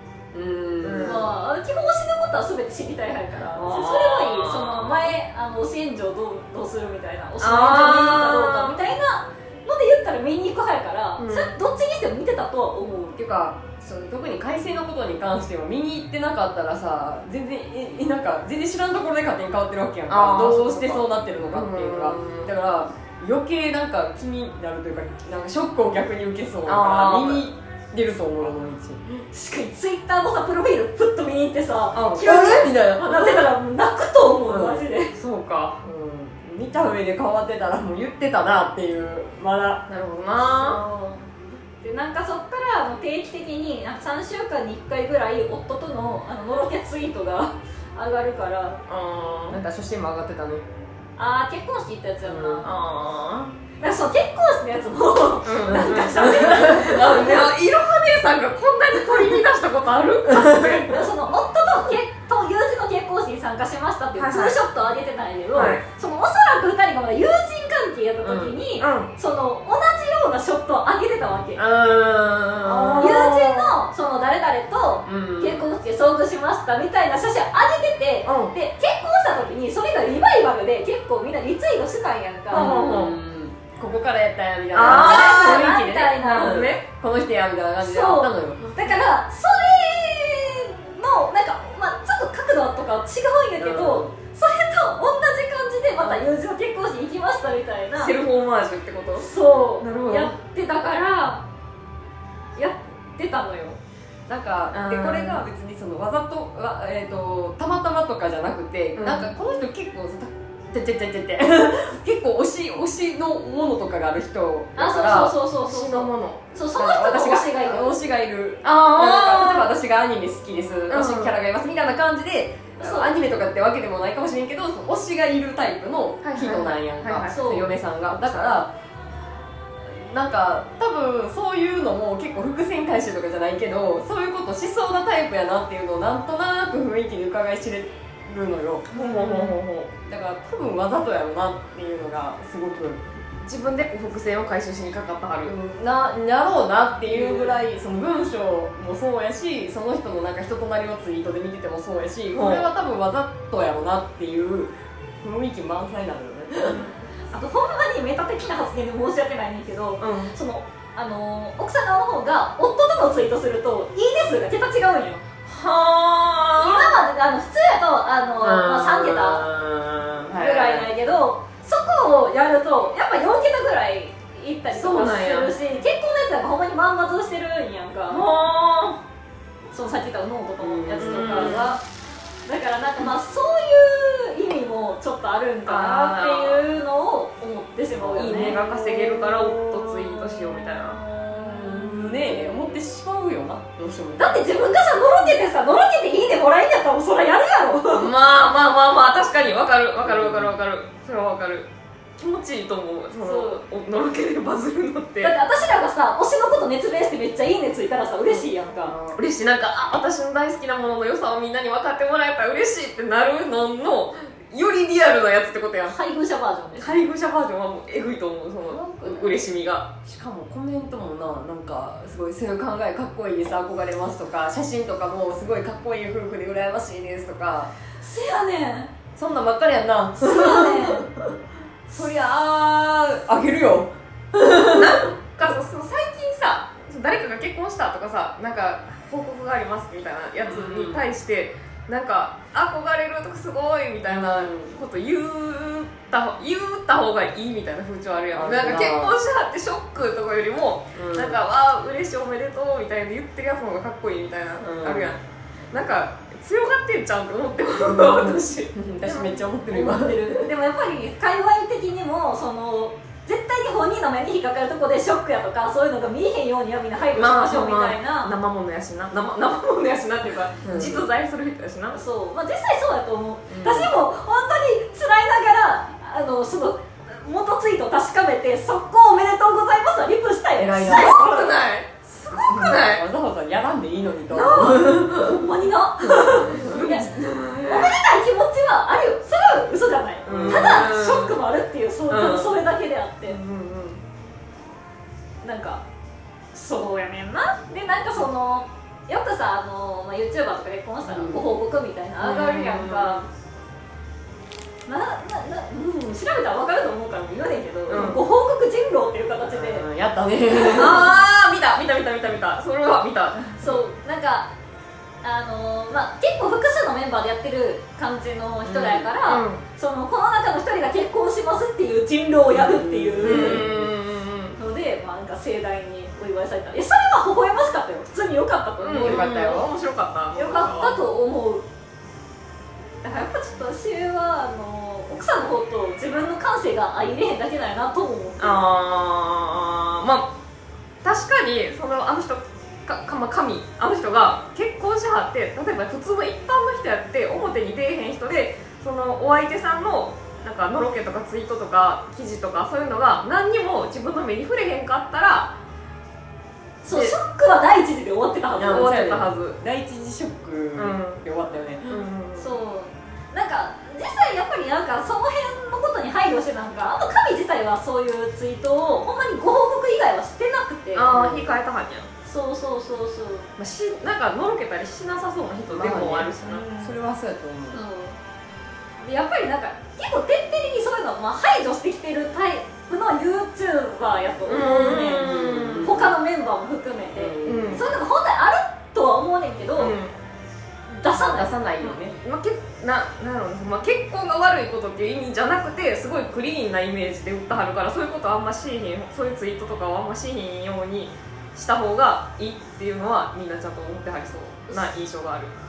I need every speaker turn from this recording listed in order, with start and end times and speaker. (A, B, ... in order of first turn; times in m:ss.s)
0:00.3-0:01.3 A
0:00.8-0:01.3 B
0:01.0-0:13.2 C
0:03.6-0:05.1 B
0:07.4-0:08.8 B
0:11.2-0:11.5 B
0:13.2-0:29.2 A
0:20.1-0:22.5 B
0:26.7-0:27.4 B
0:29.3-0:35.1 C
0:31.9-0:32.4 B
0:32.1-0:33.5 A
0:34.5-0:34.9 A
0:35.2-0:35.8 B
0:35.8-0:39.9 A
0:39.9-0:40.8 B
0:40.4-0:41.2 C
0:41.8-0:48.8 C
0:48.9-0:49.6 B
0:49.5-0:50.6 A
0:51.2-0:52.7 C
0:52.2-0:52.7 A
0:52.6-0:53.6 B
0:53.8-0:57.5 C
0:55.4-1:01.0 B
0:56.3-0:57.0 A
1:00.3-1:00.9 A
1:00.8-1:11.6 C
1:04.2-1:04.6 B
1:05.5-1:05.8 B
1:08.2-1:08.6 A
1:08.8-1:09.1 B
1:11.6-1:13.4 A
1:12.6-1:13.7 B
1:13.0-1:23.0 C
1:15.0-1:15.7 A
1:18.2-1:18.6 B
1:22.5-1:28.8 A
1:22.5-1:23.2 B
1:24.7-1:26.9 B
1:24.8-1:26.7 C
1:27.8-1:38.2 C
1:33.6-1:34.1 A
1:38.0-1:39.3 B
1:39.2-1:41.4 C
1:39.8-1:40.3 B
1:42.6-1:43.8 C
1:44.3-1:55.4 A
1:44.7-1:45.4 B
1:49.0-1:49.3 B
1:54.8-1:57.9 C
1:55.6-1:56.5 B
1:56.7-2:08.7 A
1:58.6-1:59.7 B
2:00.9-2:01.4 B
2:02.8-2:03.1 C
2:06.2-2:07.6 B
2:07.3-2:07.7 C
2:08.1-2:08.6 B
2:09.8-2:23.0 A
2:18.9-2:19.9 B
2:23.4-2:25.6 B
2:25.4-2:36.8 A
2:27.1-2:27.4 B
2:32.3-2:32.7 B
2:36.7-2:36.9 B
2:37.3-2:45.2 C
2:40.0-2:40.3 B
2:45.5-2:47.0 B
2:46.6-2:49.5 C
2:48.4-2:50.9 A
2:50.3-2:58.3 C
2:54.7-2:55.5 B
2:58.1-2:59.0 B
2:59.7-3:01.8 C
3:00.6-3:01.7 A
3:01.0-3:01.8 B
3:02.5-3:08.6 C
3:05.7-3:06.6 B
3:08.0-3:14.6 A
3:08.1-3:11.0 B
3:11.1-3:12.2 C
3:14.2-3:18.1 C
3:17.9-3:25.4 B
3:20.0-3:20.6 A
3:23.2-3:23.6 C
3:25.2-3:29.0 C
3:28.8-3:29.2 A
3:29.1-3:36.0 B
3:35.9-3:37.1 C
3:36.8-3:39.9 B
3:39.0-3:39.4 A
3:40.0-3:47.7 A
3:48.0-3:48.9 C
3:49.2-3:51.2 A
3:50.2-3:51.0 C
3:51.9-3:55.0 A
3:54.6-4:15.2 B
4:00.4-4:01.0 A
4:04.0-4:04.8 A
4:08.3-4:09.2 A
4:11.0-4:11.4 A
4:14.6-4:15.2 A
4:15.7-4:19.3 B
4:17.8-4:20.4 A
4:19.7-4:28.3 C
4:27.2-4:32.0 B
4:30.6-4:31.1 A
4:31.9-4:41.6 C
4:33.5-4:33.9 A
4:40.6-4:41.2 A
4:40.8-4:43.0 B
4:42.3-4:45.4 A
4:44.3-4:53.4 C
4:46.1-4:46.9 A
4:46.5-4:47.9 B
4:50.3-4:51.0 A
4:50.3-4:51.4 B
4:52.1-4:52.6 B
4:53.3-4:54.0 B
4:55.4-4:55.8 C
4:56.5-5:03.3 C
5:01.0-5:01.5 A
5:02.2-5:03.2 B
5:04.9-5:09.9 C
5:07.9-5:08.2 B
5:09.5-5:11.1 A
5:10.7-5:13.8 B
5:13.4-5:14.5 C
5:15.2-5:23.7 C
5:18.6-5:19.1 A
5:19.2-5:19.6 B
5:22.5-5:23.9 A
5:23.2-5:24.6 B
5:24.6-5:29.7 C
5:28.8-5:31.0 B
5:29.0-5:29.7 A
5:30.4-5:31.6 C
5:33.0-5:38.6 C
5:38.4-5:40.3 B
5:41.0-5:55.5 B
5:56.8-5:58.9 C
5:56.9-5:57.2 B
5:58.6-6:02.0 A
5:58.6-5:59.6 B
6:00.8-6:01.2 B
6:01.9-6:02.6 B
6:02.4-6:11.1 C
6:10.9-6:12.1 B
6:11.1-6:11.5 A
6:12.2-6:13.5 C
6:13.6-6:16.7 B
6:15.7-6:17.8 A
6:16.5-6:16.9 C
6:17.7-6:18.2 C
6:19.0-6:30.0 C
6:24.5-6:26.0 B
6:24.5-6:26.2 A
6:27.1-6:27.9 A
6:27.4-6:27.9 B
6:29.8-6:30.1 B
6:30.9-6:31.5 C
6:31.1-6:32.2 A
6:31.8-6:45.5 B